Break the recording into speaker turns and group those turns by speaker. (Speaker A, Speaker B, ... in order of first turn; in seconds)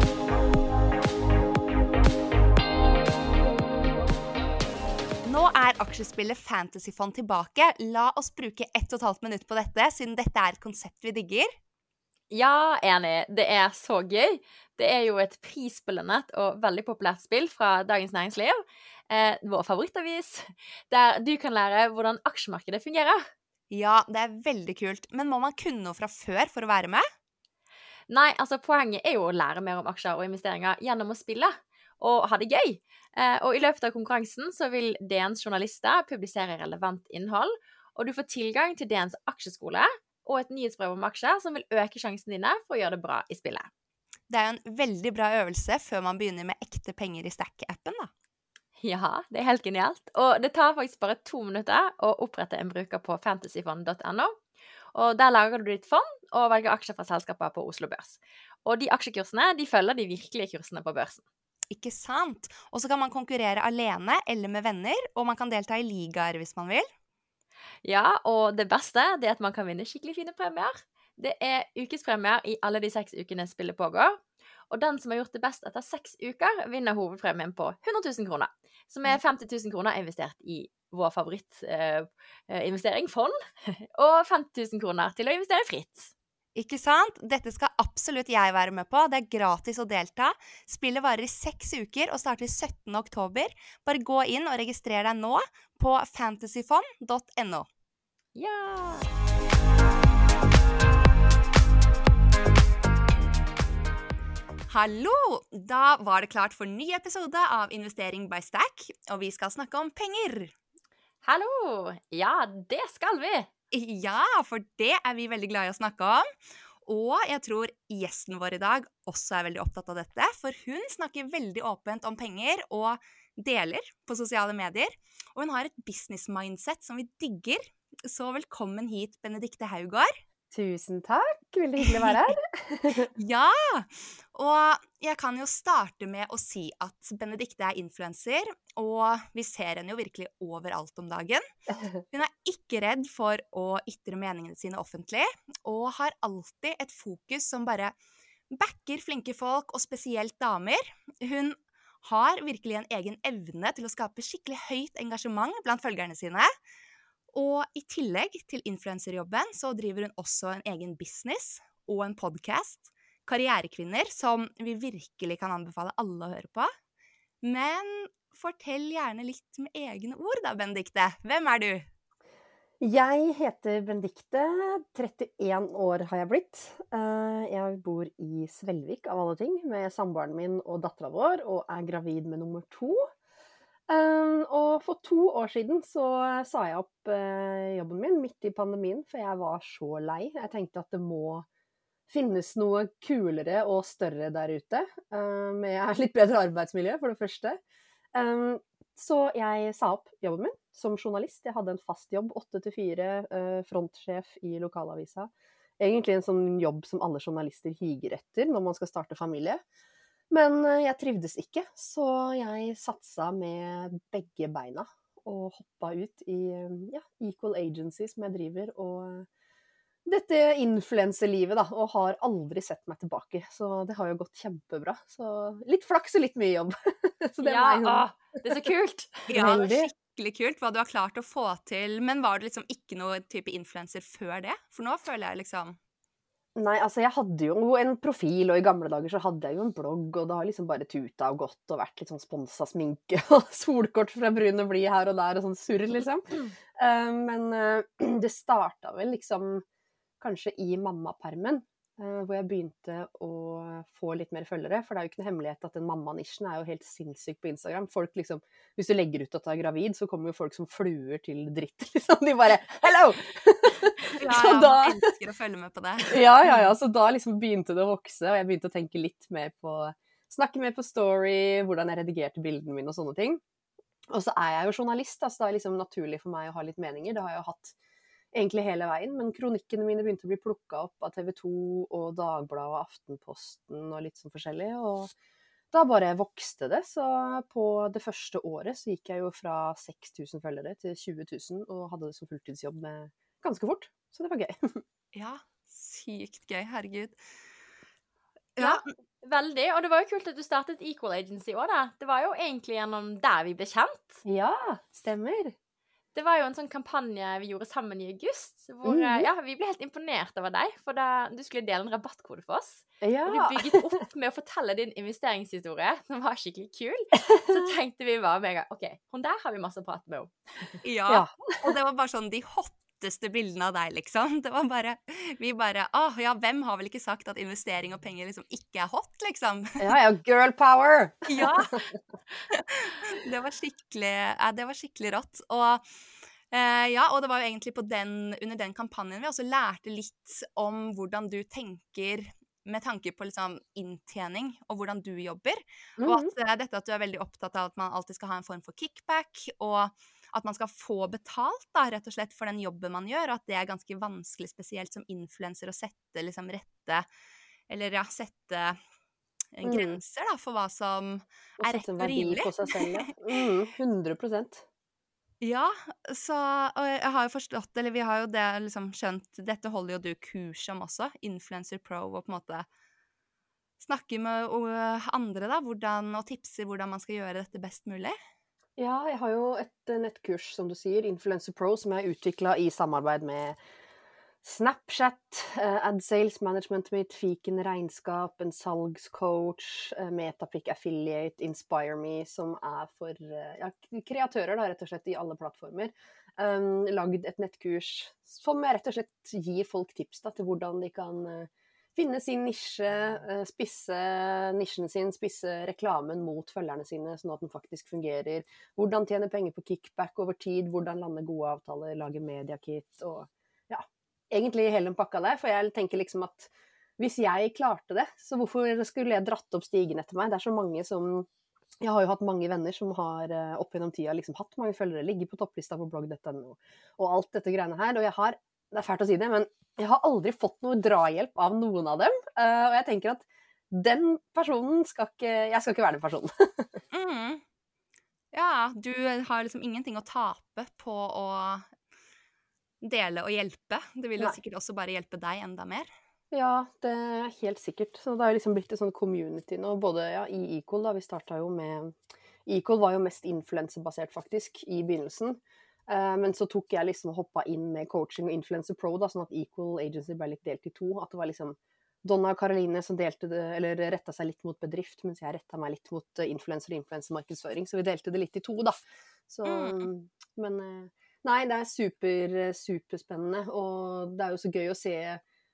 Speaker A: 5.2-11.5, 23.7-27.0, 44.3-48.1, 61.7-66.9, 86.5-97.7, 104.7-110.5, 113.7-116.2, 116.8-130.1, 131.8-132.3, 133.1-141.4, 142.1-147.9, 148.5-156.5, 157.3-166.7, 167.4-171.9, 229.3-235.8, 264.2-266.3, 295.1-297.2, 320.8-329.9, 331.3-331.8, 332.5-335.8, 336.5-357.1, 357.7-358.8, 359.6-363.0, 365.4-372.6, 373.8-378.2, 436.9-437.4, 438.3-441.7, 442.8-445.9, 469.4-469.9
Speaker B: 12.3-23.3, 28.1-43.7, 48.8-54.3, 54.9-61.2, 67.8-74.2, 74.7-86.1, 98.3-99.1, 111.2-113.5, 227.4-229.3, 298.6-304.2, 306.1-320.3
Speaker C: 130.5-133.1, 172.8-183.1, 183.9-191.4, 192.1-197.6, 198.1-209.6, 210.3-219.3, 220.1-228.1, 229.3-229.9, 236.6-246.3, 246.8-249.6, 250.2-265.1, 266.1-273.4, 274.1-277.7, 278.3-285.1, 285.7-294.8, 304.2-305.5, 308.8-309.3, 313.0-313.8, 321.1-321.6, 329.8-331.6, 346.0-346.3, 359.6-360.0, 361.6-364.6, 378.8-383.6, 384.4-421.3, 421.8-436.8, 446.3-475.2